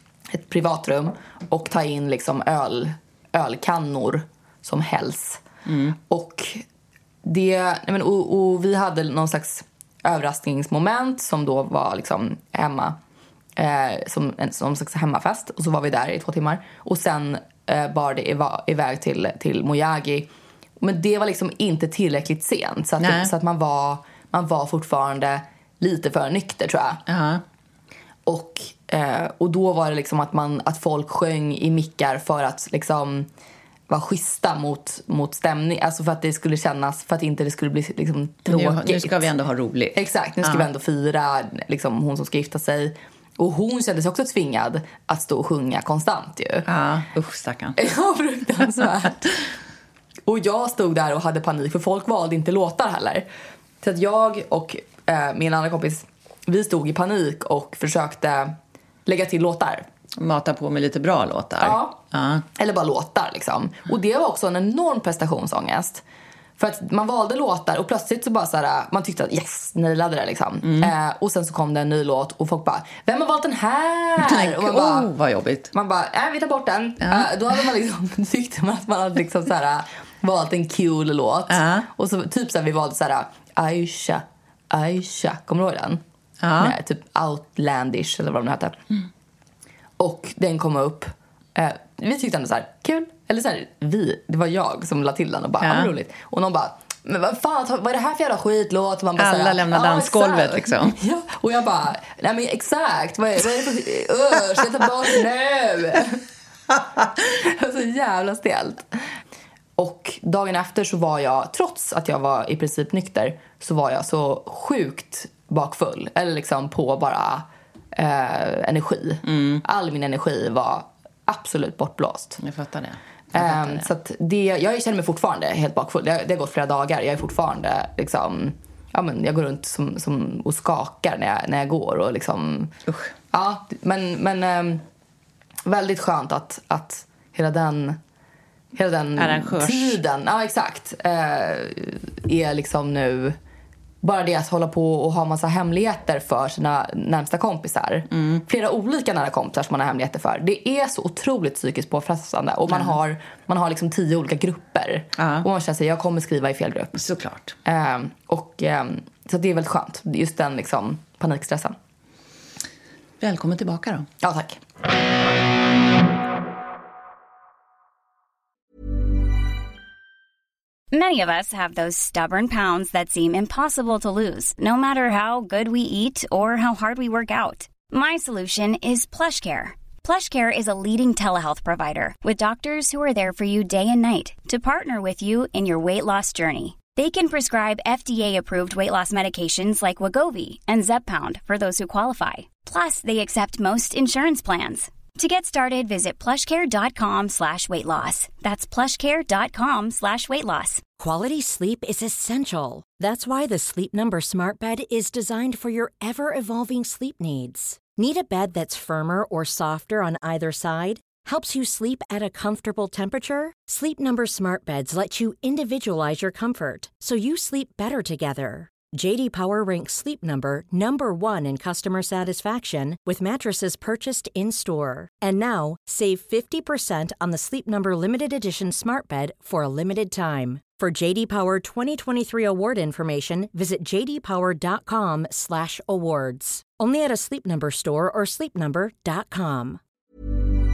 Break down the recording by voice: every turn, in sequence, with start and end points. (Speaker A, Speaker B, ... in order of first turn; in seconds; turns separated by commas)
Speaker A: 0.3-5.4, Speaker B: 5.7-6.0, Speaker A: 6.1-6.6, Speaker A: 7.2-13.0, Speaker A: 13.6-20.3, Speaker A: 20.8-27.0, Speaker B: 23.0-23.3, Speaker B: 27.1-27.4, Speaker A: 28.2-33.3, Speaker A: 33.9-39.3, Speaker B: 38.4-40.7, Speaker A: 39.9-46.7, Speaker B: 46.6-47.8, Speaker A: 47.8-49.4, Speaker A: 50.3-53.2, Speaker A: 53.8-58.5, Speaker A: 59.0-59.9, Speaker B: 60.2-62.4, Speaker A: 61.6-62.0, Speaker A: 62.5-66.0, Speaker A: 66.6-75.1, Speaker B: 70.6-70.9, Speaker B: 74.2-75.7, Speaker A: 75.7-86.0, Speaker B: 77.0-77.3, Speaker B: 81.5-81.9, Speaker B: 86.4-86.8, Speaker A: 86.6-88.8, Speaker A: 90.0-106.2, Speaker B: 95.6-95.9, Speaker B: 99.2-101.0, Speaker A: 107.3-108.9, Speaker A: 109.8-122.4, Speaker B: 119.2-119.6, Speaker B: 122.4-123.9, Speaker A: 123.3-132.7, Speaker A: 133.3-134.8, Speaker A: 135.7-138.0, Speaker A: 138.8-143.4, Speaker B: 139.2-140.0, Speaker A: 144.0-157.0, Speaker B: 148.1-148.4, Speaker B: 152.7-152.9, Speaker B: 155.2-155.5, Speaker B: 157.0-157.6, Speaker A: 157.6-161.8, Speaker B: 163.2-164.1, Speaker A: 164.2-164.6, Speaker C: 170.9-200.8, Speaker D: 201.0-239.8